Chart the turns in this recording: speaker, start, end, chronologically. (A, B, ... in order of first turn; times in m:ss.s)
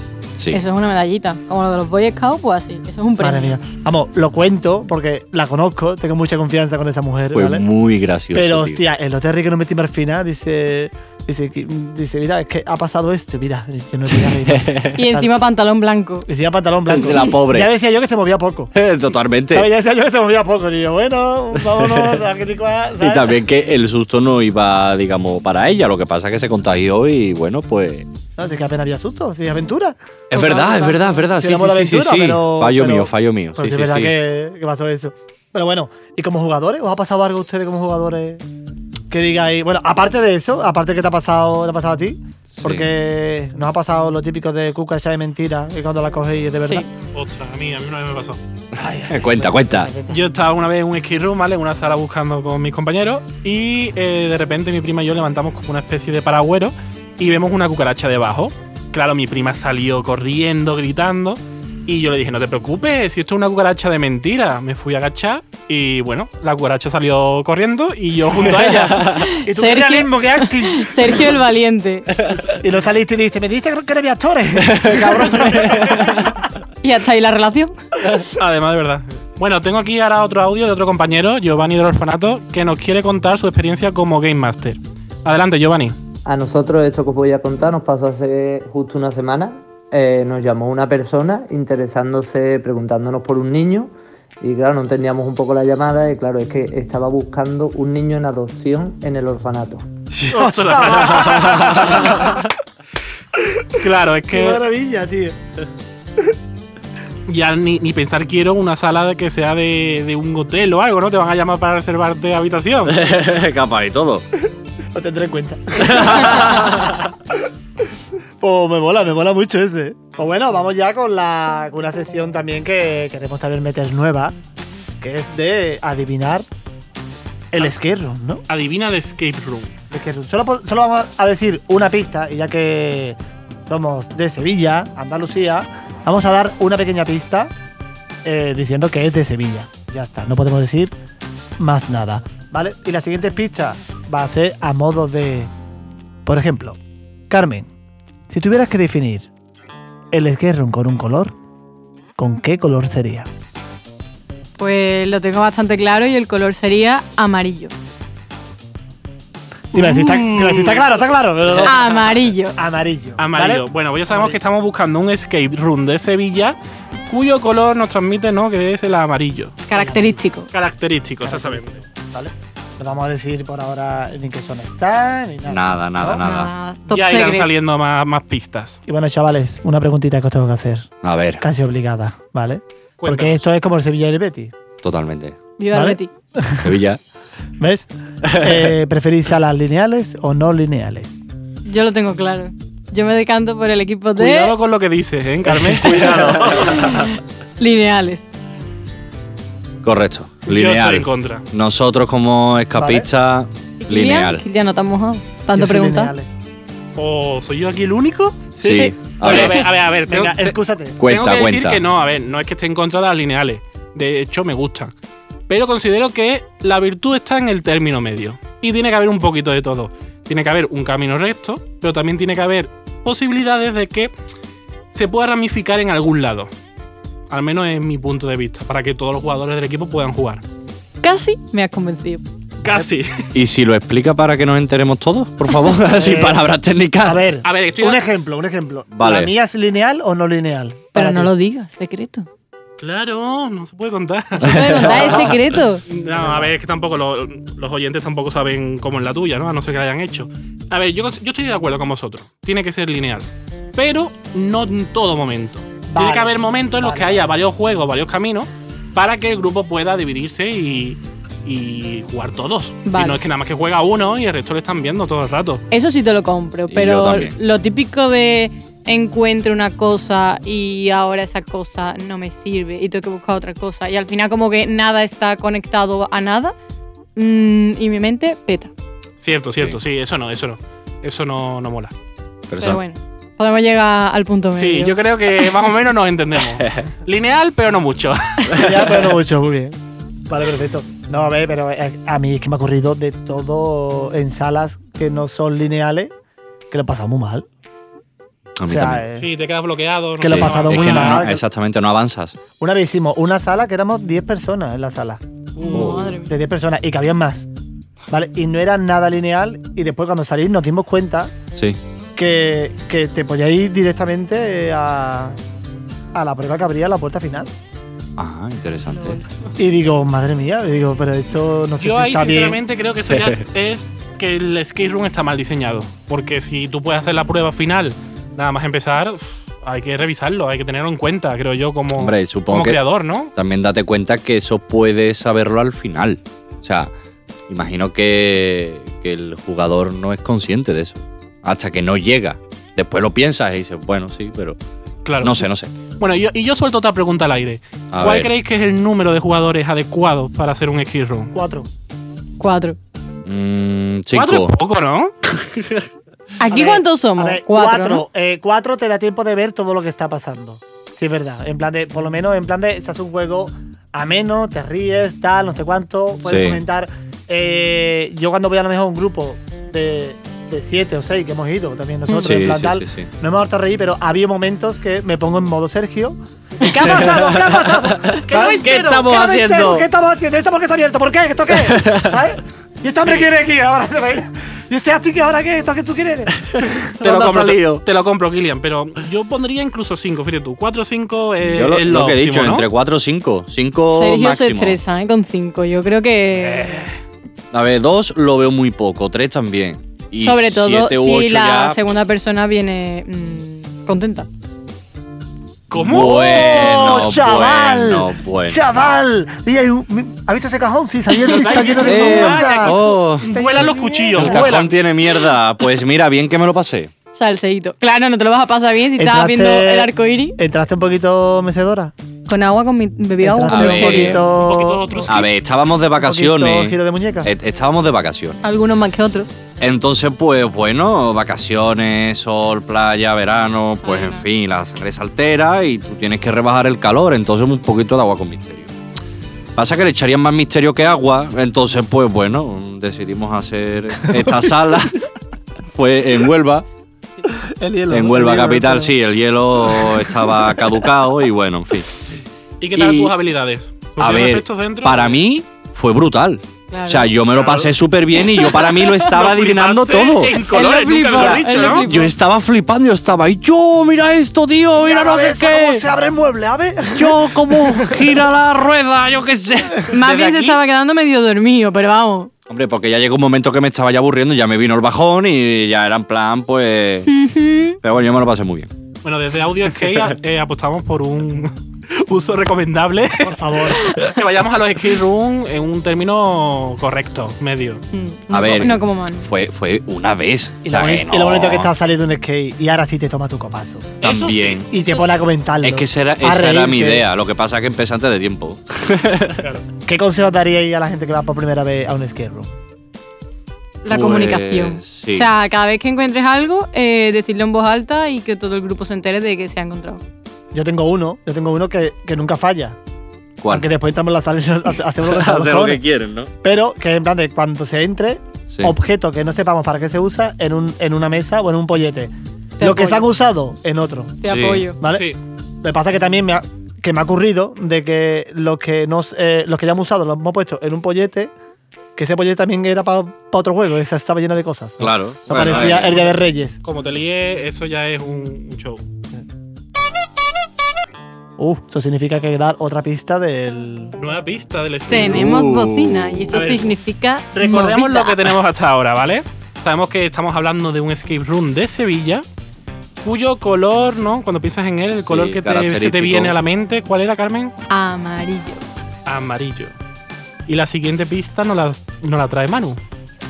0:00.4-0:00.6 A
0:00.5-0:03.6 B
0:03.2-0:07.6 C
0:07.3-0:08.8 A
0:08.3-0:15.3 C
0:14.4-0:15.0 A
0:15.0-0:16.3 B
0:16.3-0:18.7 C
0:16.9-0:17.7 A
0:18.7-0:19.7 A
0:19.5-0:23.4 C
0:23.0-0:28.1 A
0:28.4-0:30.6 C
0:30.3-0:34.1 A
0:30.3-0:31.2 B
0:31.3-0:38.4 C
0:39.1-0:46.9 C
0:42.6-0:42.9 A
0:46.6-0:46.9 B
0:47.1-0:48.4 D
0:48.8-0:50.2 C
0:49.1-0:49.9 A
0:50.1-1:09.2 D
1:09.1-1:12.1 B
1:09.4-1:11.3 C
1:12.5-1:16.3 C
1:15.7-1:16.1 A
1:16.8-1:17.8 B
1:18.3-1:26.0 D
1:26.2-1:39.9 E
1:40.1-1:42.4 D
1:40.3-1:42.3 C
1:43.5-1:45.4 C
1:43.8-1:44.6 D
1:47.3-1:53.0 D
1:52.9-1:54.2 A
1:54.9-1:57.3 C
1:55.9-1:56.9 A
1:58.4-2:04.4 C
2:05.0-2:06.5 C
2:07.5-2:08.4 C
2:08.5-2:09.7 D
2:09.9-2:17.5 C
2:18.2-2:20.9 C
2:21.6-2:25.5 C
2:26.2-2:27.7 C
2:28.3-2:29.3 C
2:30.1-2:31.3 C
2:32.2-2:33.3 C
2:34.6-2:37.7 B
2:39.7-2:44.4 C
2:39.8-2:40.2 B
2:41.5-2:41.7 D
2:41.6-2:42.6 B
2:43.2-2:46.6 D
2:47.1-2:49.6 D
2:49.7-2:50.5 B
2:49.7-2:50.2 C
2:50.5-2:51.7 D
2:51.2-2:56.2 C
2:55.5-2:56.5 A
2:56.1-2:57.5 B
2:56.9-2:58.8 D
2:58.9-3:04.5 C
3:01.0-3:01.4 A
3:03.0-3:03.4 D
3:04.8-3:05.4 A
3:05.6-3:06.1 B
3:05.7-3:06.8 C
3:06.6-3:07.0 A
3:07.6-3:11.1 C
3:08.3-3:08.6 A
3:11.7-3:14.5 B
3:14.2-3:17.1 D
3:16.6-3:18.3 B
3:19.8-3:24.4 A
3:20.5-3:21.4 D
3:22.7-3:23.1 C
3:23.8-3:26.1 B
3:25.5-3:26.3 C
3:27.0-3:34.9 D
3:28.6-3:31.0 C
3:28.6-3:29.6 A
3:28.6-3:28.9 B
3:31.0-3:31.8 A
3:35.5-3:44.1 D
3:44.9-3:46.5 D
3:47.3-3:50.4 D
3:51.0-3:52.2 B
3:52.6-3:53.2 D
3:53.3-3:57.2 A
3:55.9-3:56.5 C
3:57.0-4:01.3 C
3:57.4-3:58.0 D
3:58.9-3:59.3 A
4:00.9-4:02.3 B
4:02.8-4:05.3 D
4:04.4-4:05.8 B
4:04.4-4:05.4 A
4:05.9-4:25.6 D
4:06.1-4:06.5 C
4:15.9-4:17.3 C
4:22.8-4:23.2 B
4:25.7-4:36.5 B
4:26.7-4:27.4 A
4:37.2-4:38.7 B
4:39.2-4:41.9 D
4:42.5-4:42.8 A
4:42.6-4:45.0 B
4:44.5-4:48.6 D
4:46.6-4:46.9 A
4:48.5-4:56.1 C
4:56.7-4:57.4 C
4:58.6-4:59.0 A
4:58.7-4:59.3 C
4:59.2-5:01.2 D
5:00.2-5:01.4 C
5:00.2-5:02.4 A
5:02.6-5:05.2 C
5:05.6-5:05.9 D
5:05.6-5:06.3 B
5:05.7-5:06.1 A
5:05.8-5:07.5 C
5:08.1-5:11.4 C
5:11.5-5:11.8 A
5:12.2-5:15.4 C
5:16.1-5:17.5 C
5:18.2-5:19.2 A
5:19.6-5:22.6 C
5:21.8-5:33.3 D
5:32.0-5:32.8 A
5:33.3-5:36.9 A
5:37.5-5:44.6 A
5:45.0-5:45.5 D
5:45.2-5:45.7 A
5:46.0-5:51.3 D
5:47.9-5:48.3 A
5:51.3-5:51.7 C
5:52.4-5:52.8 B
5:53.2-5:54.5 A
5:54.1-5:55.1 D
5:56.4-5:58.0 B
5:56.5-6:26.7 C
6:06.2-6:06.6 A
6:12.2-6:13.1 A
6:16.7-6:19.9 A
6:18.3-6:19.0 D
6:21.7-6:22.2 A
6:27.0-6:27.8 A
6:27.0-6:32.7 D
6:31.4-6:34.8 A
6:33.9-6:36.9 B
6:36.5-6:36.9 D
6:37.5-6:41.8 A
6:40.2-6:44.3 B
6:45.7-6:46.7 D
6:45.7-6:48.8 A
6:45.8-6:54.5 C
6:51.2-6:54.8 D
6:51.8-6:53.4 A
6:54.1-6:56.9 A
6:57.1-7:00.4 B
6:59.0-7:01.9 C
7:02.3-7:04.2 B
7:03.2-7:05.0 C
7:03.5-7:04.2 A
7:03.9-7:05.3 D
7:05.1-7:08.4 A
7:06.0-7:07.3 C
7:08.4-7:09.3 B
7:09.6-7:18.7 A
7:13.8-7:14.2 B
7:19.6-7:24.9 A
7:24.1-7:24.5 C
7:25.7-7:26.6 A
7:27.3-7:28.9 C
7:27.9-7:31.9 A
7:29.6-7:30.7 C
7:32.6-7:35.2 D
7:32.8-7:33.1 A
7:34.0-7:40.4 A
7:36.7-7:37.1 B
7:37.3-7:37.7 D
7:38.2-7:39.1 B
7:39.1-7:41.9 D
7:40.5-7:42.1 B
7:41.1-7:45.8 A
7:44.8-7:48.2 C
7:46.9-7:49.9 A
7:49.9-7:52.3 B
7:50.0-7:50.6 D
7:52.5-7:57.1 A
7:57.0-7:57.8 B
7:57.8-7:58.7 A
7:59.0-8:07.8 D
8:03.2-8:03.9 C
8:07.9-8:09.3 B
8:08.3-8:11.7 A
8:10.6-8:13.9 C
8:14.0-8:14.6 D
8:14.0-8:14.7 A
8:14.7-8:17.0 C
8:14.9-8:15.2 B
8:15.6-8:19.4 A
8:19.8-8:22.5 C
8:23.8-8:30.0 B
8:23.9-8:25.3 A
8:30.5-8:32.8 C
8:33.4-8:33.7 A
8:33.5-8:35.8 C
8:35.0-8:36.3 A
8:36.4-8:44.2 C
8:42.6-8:43.0 B
8:44.2-8:44.8 B
8:44.2-8:44.7 A
8:44.8-8:45.1 C
8:44.8-8:45.2 D
8:45.6-8:51.3 C
8:52.0-8:56.6 C
8:54.8-8:56.1 A
8:55.4-8:55.8 D
8:56.6-8:58.8 D
9:01.4-9:04.0 C
9:04.0-9:05.2 D
9:04.9-9:08.2 B
9:04.9-9:06.4 A
9:06.3-9:06.7 D
9:07.3-9:12.2 D
9:13.0-9:17.5 D
9:15.0-9:16.4 A
9:17.7-9:18.6 B
9:19.0-9:19.7 D
9:20.5-9:22.8 D